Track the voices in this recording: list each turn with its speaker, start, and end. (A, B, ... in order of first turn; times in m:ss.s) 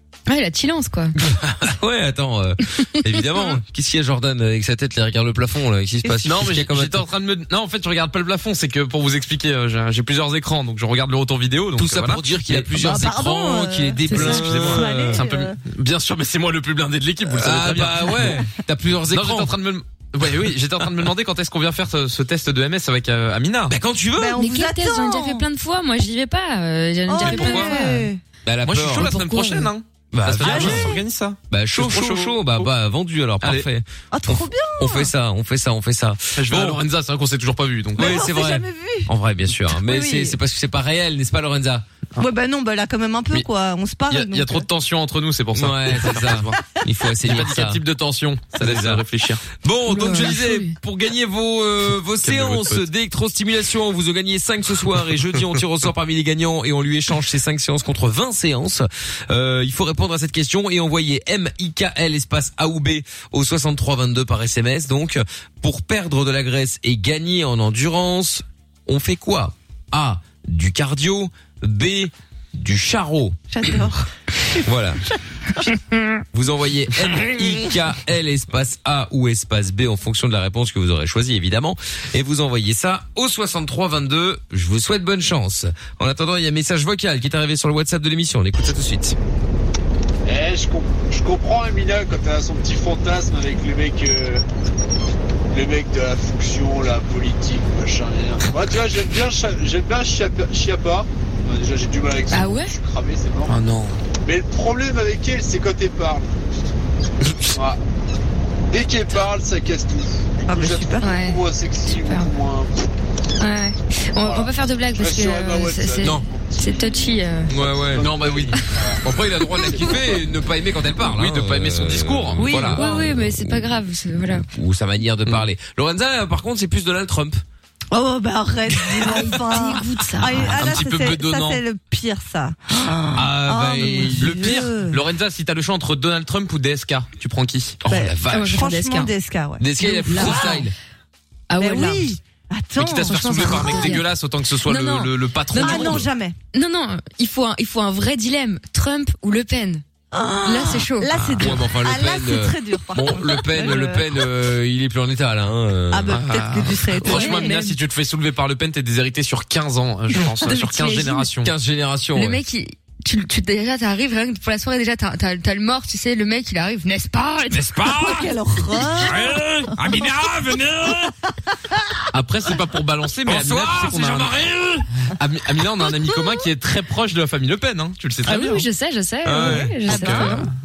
0:00.3-0:01.1 A
0:01.2-0:07.0 B
0:06.2-0:12.6 C
0:11.8-0:15.3 B
0:12.8-0:15.5 D
0:14.1-0:18.5 C
0:17.2-0:19.5 B
0:19.1-0:23.7 C
0:23.7-0:24.4 B
0:24.2-0:25.4 D
0:24.4-0:28.1 A
0:27.1-0:28.2 D
0:27.2-0:27.7 B
0:28.4-0:29.1 B
0:28.6-0:32.7 C
0:29.0-0:29.7 A
0:30.1-0:31.0 B
0:30.4-0:31.0 D
0:31.5-0:36.8 B
0:33.4-0:33.6 C
0:34.1-0:35.1 D
0:36.4-0:38.2 C
0:38.0-0:41.8 B
0:38.0-0:39.1 D
0:39.7-0:40.4 D
0:42.2-0:44.7 D
0:44.1-0:46.6 C
0:45.5-0:47.8 B
0:47.2-0:49.4 C
0:48.5-1:13.4 B
0:49.9-0:50.8 A
0:52.2-0:52.8 C
1:13.5-1:14.0 D
1:14.6-1:15.0 B
1:16.3-1:29.2 B
1:30.2-1:34.4 E
1:35.5-1:43.5 E
1:42.3-1:42.7 A
1:43.5-1:44.0 C
1:44.2-1:46.3 E
1:47.2-1:47.6 B
1:47.5-1:47.8 E
1:48.7-1:52.7 E
1:50.5-1:51.1 D
1:51.0-1:52.3 A
1:53.4-1:57.5 A
1:54.2-1:56.4 E
1:57.5-2:03.7 B
1:58.0-1:58.6 C
1:58.0-1:59.0 E
1:59.6-2:00.0 E
2:01.0-2:02.8 C
2:02.4-2:03.0 D
2:02.7-2:04.5 A
2:04.5-2:07.4 B
2:07.9-2:15.0 D
2:08.9-2:09.2 B
2:09.0-2:10.5 A
2:10.5-2:11.6 C
2:11.0-2:11.6 B
2:13.1-2:14.7 B
2:13.8-2:17.8 C
2:17.8-2:18.6 B
2:17.9-2:20.6 D
2:18.3-2:19.1 A
2:19.6-2:20.7 B
2:19.8-2:20.4 A
2:21.5-2:22.1 A
2:21.6-2:24.0 D
2:22.8-2:26.1 C
2:23.0-2:24.0 A
2:24.6-2:26.0 A
2:25.5-2:26.4 D
2:26.5-2:29.8 A
2:30.1-2:34.0 D
2:30.4-2:31.1 A
2:31.1-2:31.6 C
2:31.4-2:36.2 B
2:35.9-2:37.8 D
2:36.1-2:41.5 C
2:37.1-2:37.3 B
2:40.5-2:40.9 A
2:40.7-2:41.1 D
2:41.4-2:42.4 B
2:42.1-2:47.7 A
2:47.5-2:51.1 B
2:47.9-2:49.4 D
2:52.1-2:54.3 C
2:53.2-2:54.9 B
2:55.2-2:58.7 C
2:58.2-3:00.5 A
2:59.2-3:00.3 B
2:59.4-3:00.5 D
2:59.9-3:00.4 C